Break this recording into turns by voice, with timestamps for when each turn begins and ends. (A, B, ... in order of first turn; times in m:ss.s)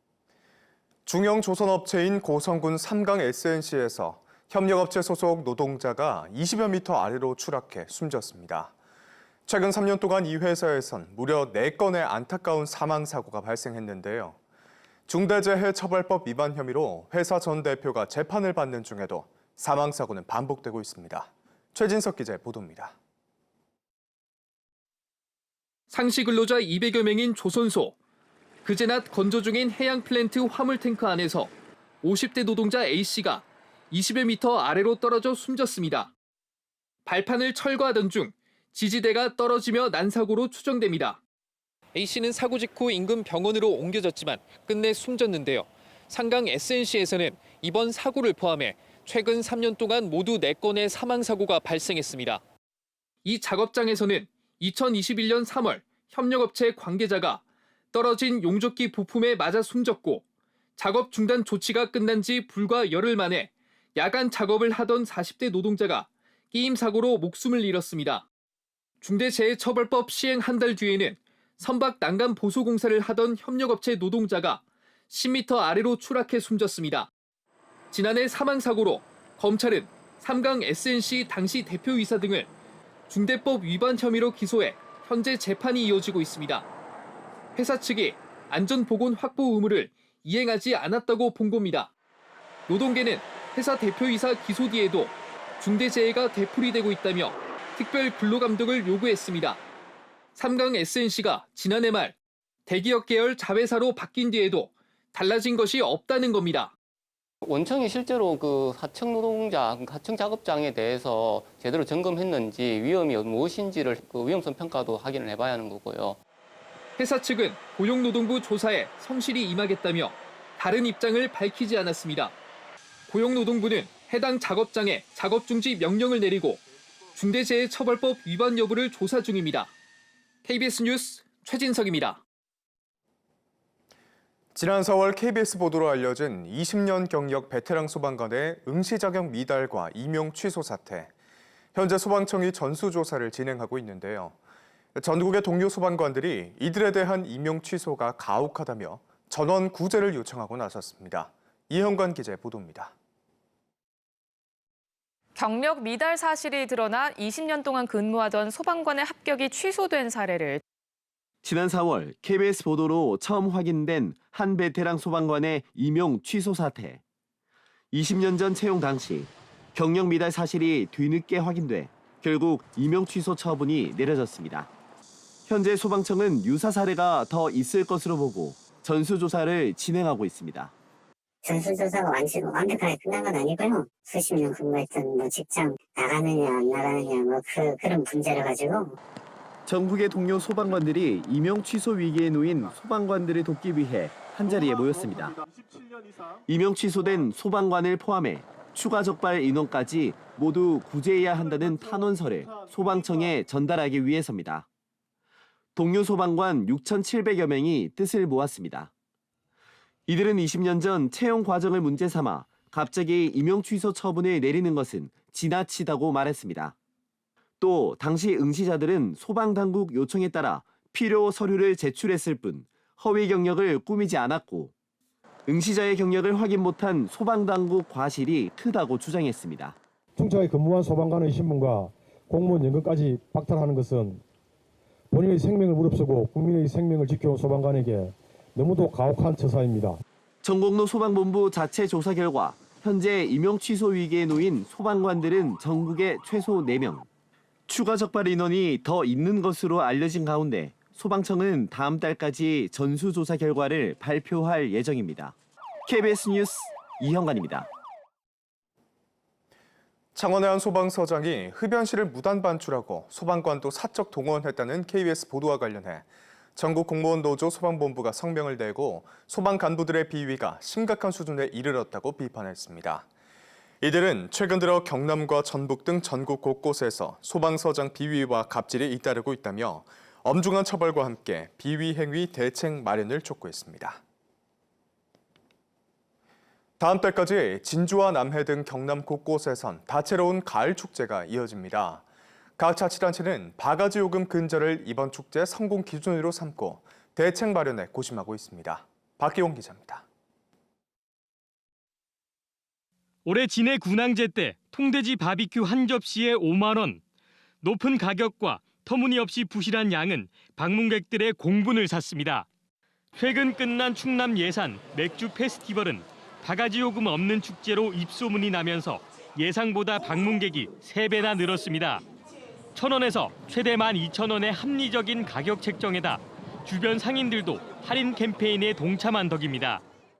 0:01.0-0:08.7 A
0:09.4-0:14.4 A
0:15.1-0:22.9 A
0:25.9-0:28.0 B
0:28.6-0:31.5 B
0:32.0-0:36.1 B
0:37.0-0:41.2 B
0:41.9-0:52.4 B
0:53.2-0:57.4 B
0:57.9-1:00.2 B
1:00.8-1:08.3 B
1:09.0-1:17.1 B
1:17.9-1:22.5 B
1:23.1-1:26.7 B
1:27.6-1:31.9 B
1:32.7-1:39.6 B
1:40.4-1:42.1 B
1:42.7-1:46.7 B
1:47.4-1:56.2 C
1:57.0-2:02.4 B
2:03.1-2:06.6 B
2:07.1-2:09.7 B
2:10.4-2:12.2 B
2:14.5-2:21.1 A
2:21.7-2:24.4 A
2:24.9-2:32.9 A
2:35.3-2:40.6 D
2:41.4-2:47.0 E
2:47.9-2:54.7 E
2:55.5-3:00.7 E
3:01.4-3:08.9 F
3:09.6-3:15.4 E
3:16.4-3:24.6 E
3:25.8-3:28.9 E
3:30.1-3:36.7 E
3:37.6-3:44.7 E
3:45.5-3:49.8 E
3:50.2-3:54.2 G
3:55.1-4:00.0 G
4:00.4-4:07.1 E
4:07.7-4:15.3 E
4:15.8-4:17.7 E
4:20.1-4:33.0 A
4:33.8-4:44.0 A
4:46.8-4:52.0 A
4:52.6-5:00.0 A
5:03.2-5:07.0 H
5:07.6-5:12.5 H
5:13.2-5:22.0 H
5:22.7-5:29.8 H